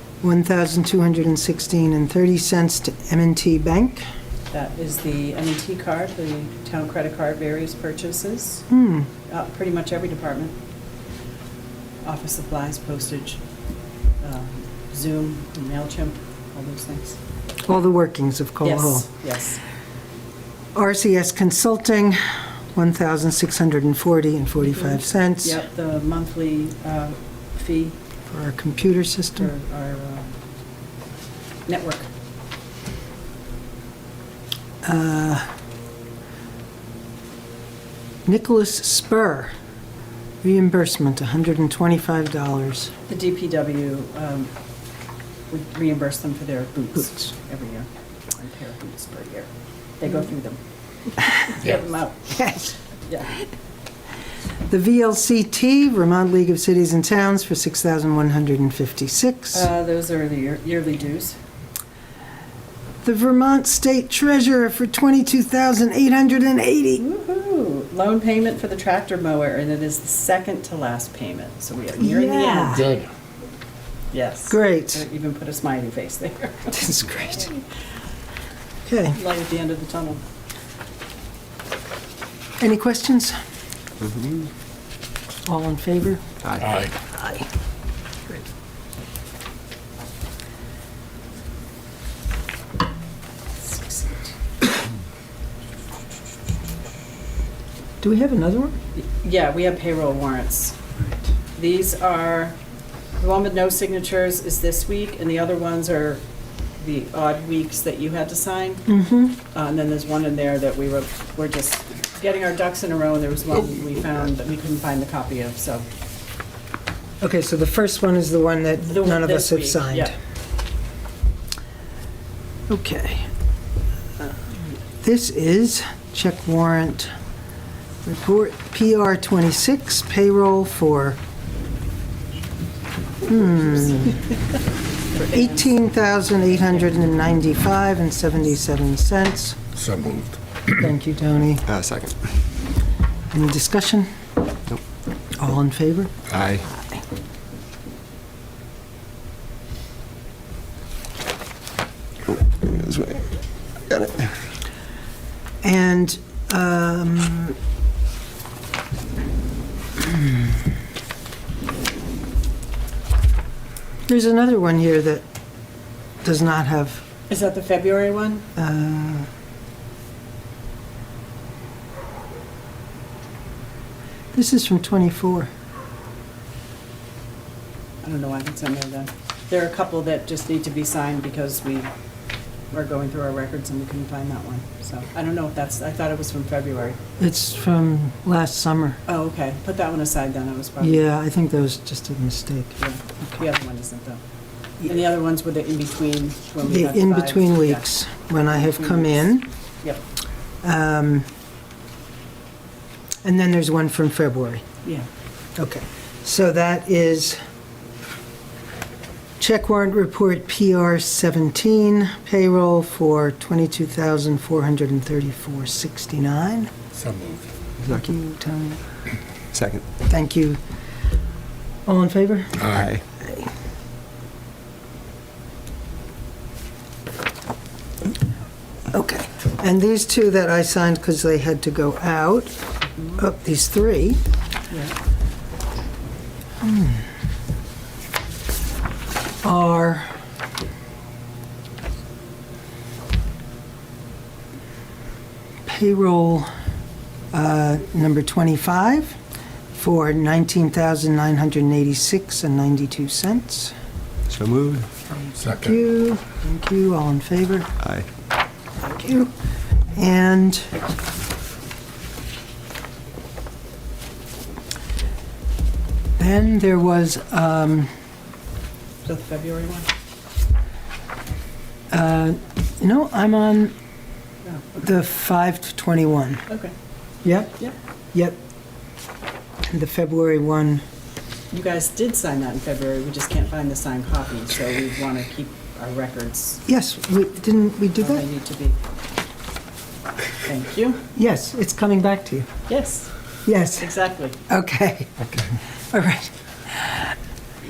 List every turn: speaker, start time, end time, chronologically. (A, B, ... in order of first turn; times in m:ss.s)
0:00.2-0:04.0 A
0:04.5-0:08.6 B
0:08.7-0:09.1 A
0:09.3-0:10.5 B
0:12.0-0:13.4 B
0:14.2-0:17.2 B
0:17.6-0:19.1 A
0:18.6-0:19.6 B
0:20.7-0:25.6 A
0:24.8-0:28.0 B
0:28.3-0:29.5 A
0:29.4-0:30.3 B
0:31.7-0:32.1 B
0:34.8-0:35.4 A
0:38.2-0:39.5 A
0:40.4-0:42.9 A
0:43.1-0:44.5 B
0:45.5-0:49.5 B
0:50.0-0:50.6 B
0:51.4-0:52.4 B
0:52.4-0:52.7 A
0:53.1-0:53.4 B
0:54.7-0:59.7 A
0:59.5-1:01.4 B
1:03.0-1:07.0 A
1:07.0-1:12.9 B
1:12.0-1:13.0 A
1:14.1-1:17.6 B
1:14.5-1:15.0 A
1:16.7-1:17.5 A
1:18.8-1:19.2 A
1:19.1-1:20.2 B
1:22.6-1:23.4 A
1:24.0-1:24.4 C
1:25.4-1:26.2 A
1:26.6-1:26.9 D
1:27.1-1:27.4 A
1:33.6-1:34.3 B
1:38.0-1:38.8 A
1:38.9-1:40.8 B
1:41.6-1:42.6 B
1:43.2-1:46.2 B
1:46.8-1:48.8 B
1:48.9-1:49.4 A
1:49.5-1:55.8 B
1:57.2-2:00.1 A
1:58.8-2:00.1 B
2:02.7-2:03.3 A
2:05.0-2:07.1 A
2:08.0-2:11.2 A
2:13.2-2:14.2 A
2:15.1-2:15.6 B
2:15.2-2:19.6 A
2:19.8-2:20.4 D
2:20.7-2:21.6 A
2:21.6-2:22.2 C
2:23.3-2:24.1 A
2:25.4-2:26.1 A
2:26.3-2:26.7 C
2:32.3-2:33.3 C
2:33.9-2:34.3 C
2:35.6-2:37.6 A
2:44.1-2:45.2 A
2:46.2-2:47.0 A
2:47.3-2:48.5 B
2:48.6-2:49.3 A
2:54.3-2:55.5 A
2:58.0-3:01.9 B
3:02.7-3:07.0 B
3:07.2-3:09.0 A
3:09.1-3:11.0 B
3:10.8-3:12.8 A
3:12.8-3:14.2 B
3:14.8-3:17.8 B
3:16.6-3:19.5 A
3:18.5-3:19.3 B
3:20.6-3:21.3 A
3:23.2-3:24.6 A
3:25.6-3:27.4 A
3:29.4-3:36.7 A
3:36.9-3:37.4 D
3:37.8-3:38.8 A
3:39.5-3:39.9 C
3:40.0-3:40.6 A
3:41.8-3:42.7 A
3:42.6-3:42.8 D
3:42.6-3:43.0 C
3:48.9-3:52.6 A
3:53.2-3:54.2 A
3:54.7-3:54.9 B
3:56.6-3:57.1 A
3:59.4-4:00.1 A
4:05.6-4:06.5 A
4:07.3-4:09.2 A
4:09.7-4:13.7 A
4:14.3-4:14.9 C
4:15.1-4:17.7 A
4:15.4-4:15.6 D
4:17.8-4:18.0 C
4:18.8-4:19.3 A
4:19.9-4:20.7 A
4:26.2-4:27.9 A
4:29.0-4:29.9 B
4:31.9-4:33.7 A
4:34.8-4:36.4 A
4:37.2-4:37.6 A
4:39.7-4:40.8 A
4:41.5-4:46.6 B
4:46.6-4:48.2 A
4:48.0-4:48.8 B
4:50.4-4:51.0 B
4:51.2-4:52.5 A
4:52.7-4:53.1 B
4:53.4-4:53.9 A
4:53.8-4:54.4 B
4:54.5-4:57.1 A